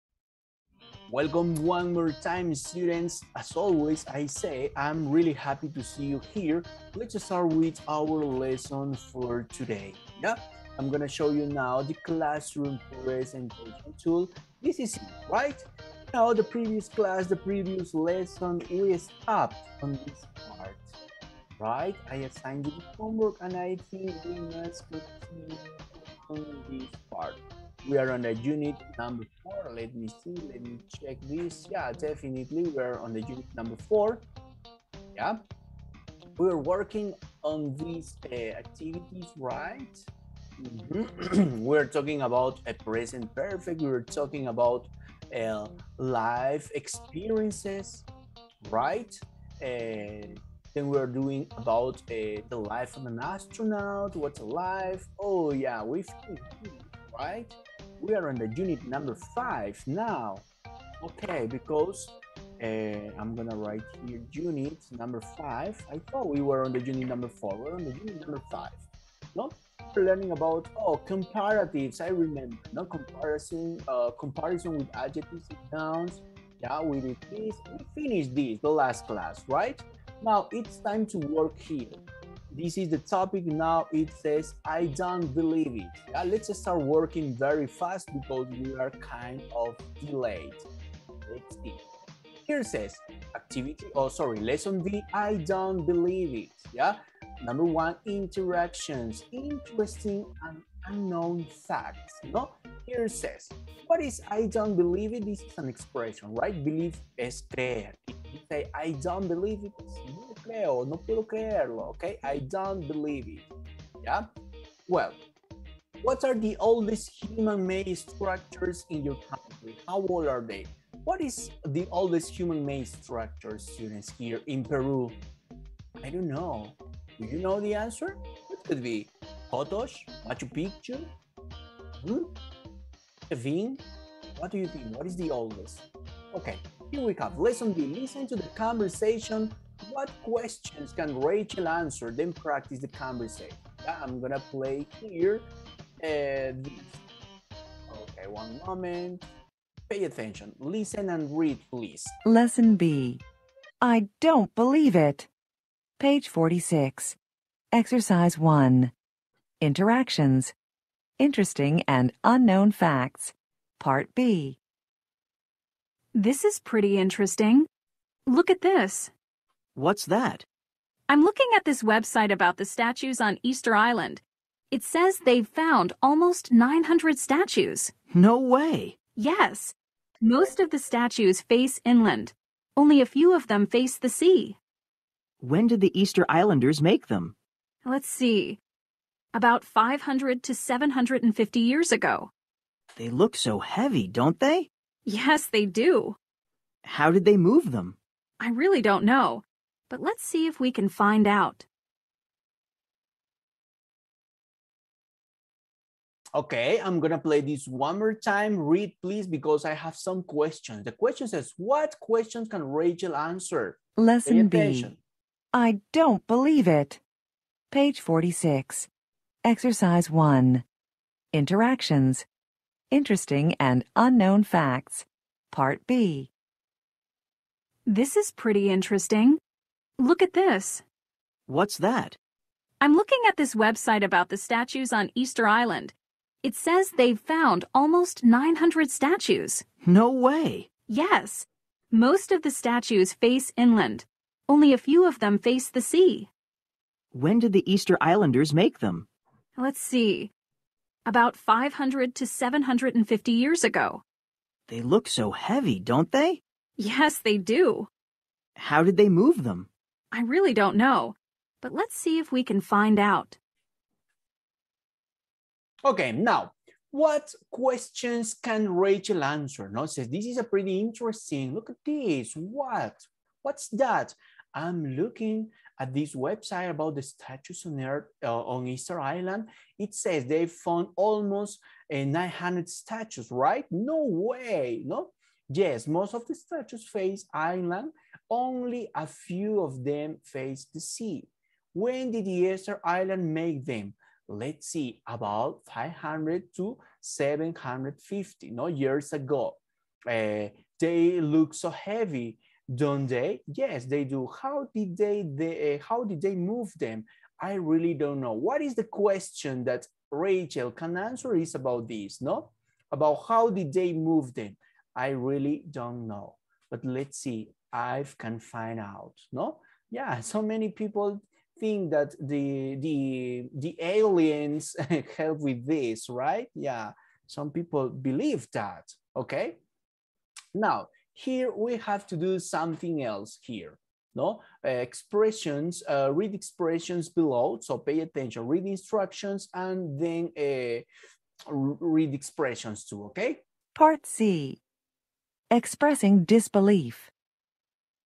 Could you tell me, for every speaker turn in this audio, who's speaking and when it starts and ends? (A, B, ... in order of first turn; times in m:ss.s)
0:01.1-0:20.9 A
0:21.6-0:34.2 A
0:35.1-0:35.4 A
0:36.4-0:48.0 A
0:48.6-1:00.4 A
1:01.0-1:08.8 A
1:09.4-1:22.0 A
1:22.5-1:30.7 A
1:31.2-1:31.8 A
1:32.5-1:53.5 A
1:54.9-1:55.2 A
1:56.0-2:05.2 A
2:06.0-2:11.1 A
2:12.0-2:12.3 A
2:13.3-2:13.8 A
2:14.3-2:25.5 A
2:26.0-2:27.0 A
2:27.9-2:29.2 A
2:29.9-2:32.1 A
2:32.2-2:33.2 B
2:33.8-2:35.3 B
2:36.0-2:37.2 B
2:37.7-2:38.9 B
2:39.6-2:40.5 B
2:41.2-2:44.6 B
2:46.1-2:47.7 C
2:48.3-2:49.1 C
2:49.8-2:50.4 D
2:51.1-2:57.9 C
2:58.1-2:59.0 D
2:59.1-3:04.6 C
3:05.4-3:07.3 D
3:07.8-3:08.6 C
3:09.3-3:12.3 C
3:12.9-3:14.7 D
3:15.0-3:16.2 C
3:16.8-3:18.0 D
3:18.4-3:21.7 C
3:26.4-3:35.0 A
3:34.0-3:34.9 B
3:35.5-3:37.0 B
3:37.7-3:38.9 B
3:39.4-3:40.6 B
3:41.3-3:42.2 B
3:42.9-3:46.3 B
3:47.8-3:49.4 C
3:50.0-3:50.8 C
3:51.5-3:52.2 D
3:52.8-3:59.6 C
3:59.8-4:00.7 D
4:00.9-4:06.3 C
4:07.1-4:09.1 D
4:09.6-4:10.3 C
4:11.0-4:14.0 C
4:14.7-4:16.4 D
4:16.8-4:17.9 C
4:18.6-4:19.7 D
4:20.1-4:23.4 C
4:25.8-5:29.6 A
5:30.6-5:40.9 A
5:41.5-5:43.4 A
5:43.8-5:44.6 B
5:45.5-5:47.1 B